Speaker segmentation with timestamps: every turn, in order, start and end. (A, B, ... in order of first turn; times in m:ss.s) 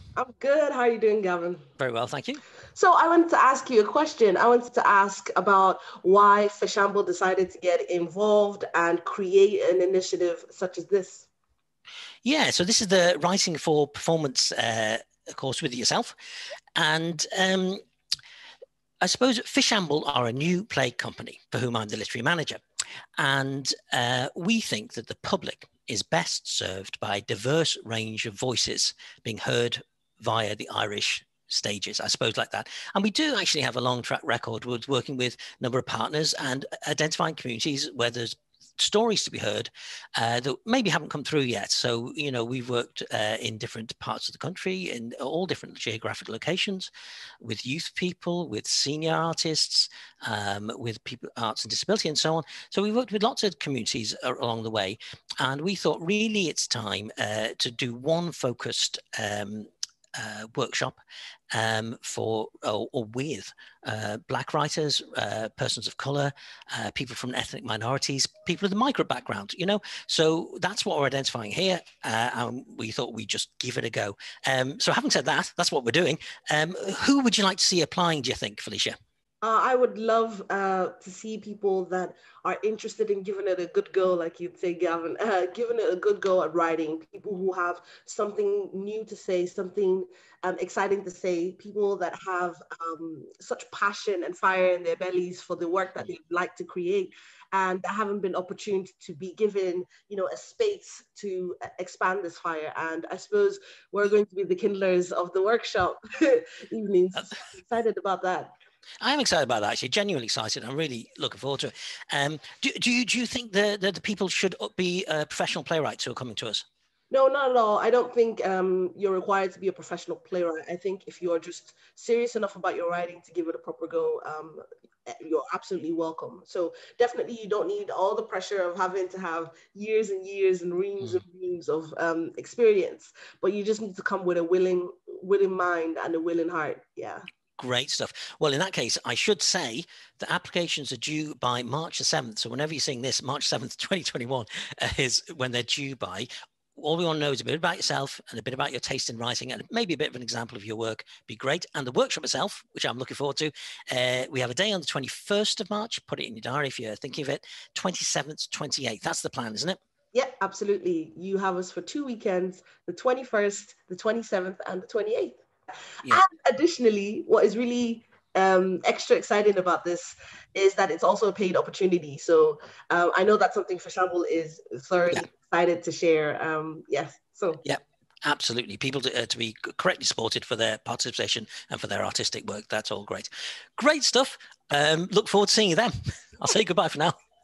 0:00.2-0:01.7 A
0:01.8-0:02.4 B
0:02.8-0:11.3 A
0:12.2-0:16.2 B
0:16.8-0:17.8 B
0:19.0-0:22.6 B
0:23.2-1:01.0 B
1:01.5-1:18.9 B
1:19.4-1:48.5 A
1:49.0-1:56.6 B
1:57.1-2:17.2 A
2:17.6-2:39.8 B
2:40.1-2:45.4 A
2:46.0-2:57.6 A
2:57.6-3:07.1 B